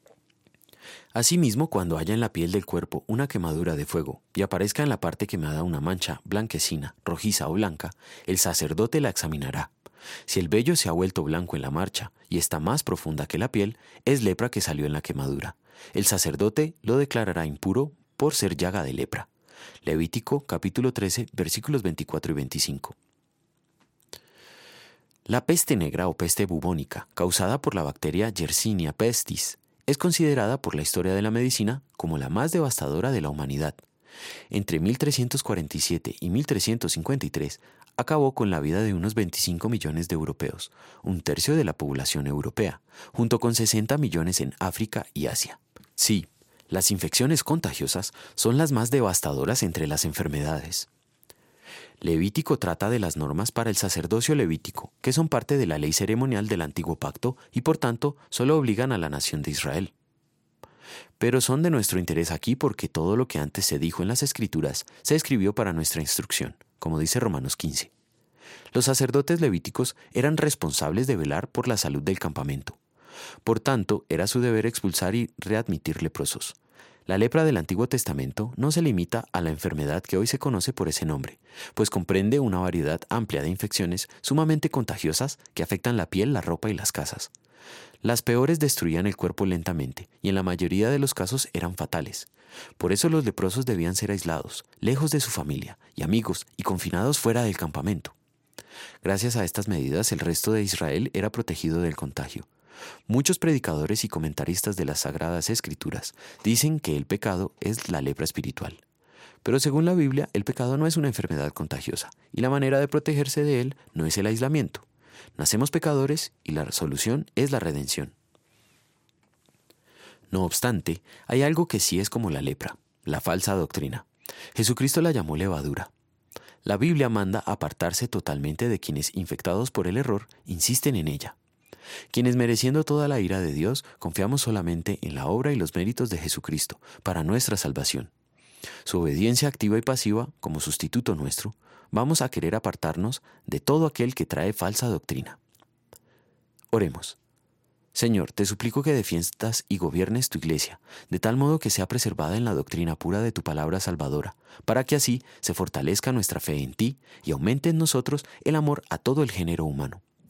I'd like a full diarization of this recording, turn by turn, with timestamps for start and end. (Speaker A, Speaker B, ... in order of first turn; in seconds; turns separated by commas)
Speaker A: 1.1-9.7, Speaker A: 10.3-19.3, Speaker A: 19.8-23.0, Speaker A: 25.3-33.8, Speaker A: 34.5-50.9, Speaker A: 52.0-59.9, Speaker A: 61.2-67.9, Speaker A: 68.7-72.8, Speaker A: 73.5-87.3, Speaker A: 88.0-98.1, Speaker A: 99.0-102.5, Speaker A: 103.1-108.8, Speaker A: 109.4-114.8, Speaker A: 115.4-118.2, Speaker A: 120.3-125.9, Speaker A: 126.6-131.4, Speaker A: 132.1-138.1, Speaker A: 138.8-145.4, Speaker A: 146.7-147.2, Speaker A: 147.9-160.0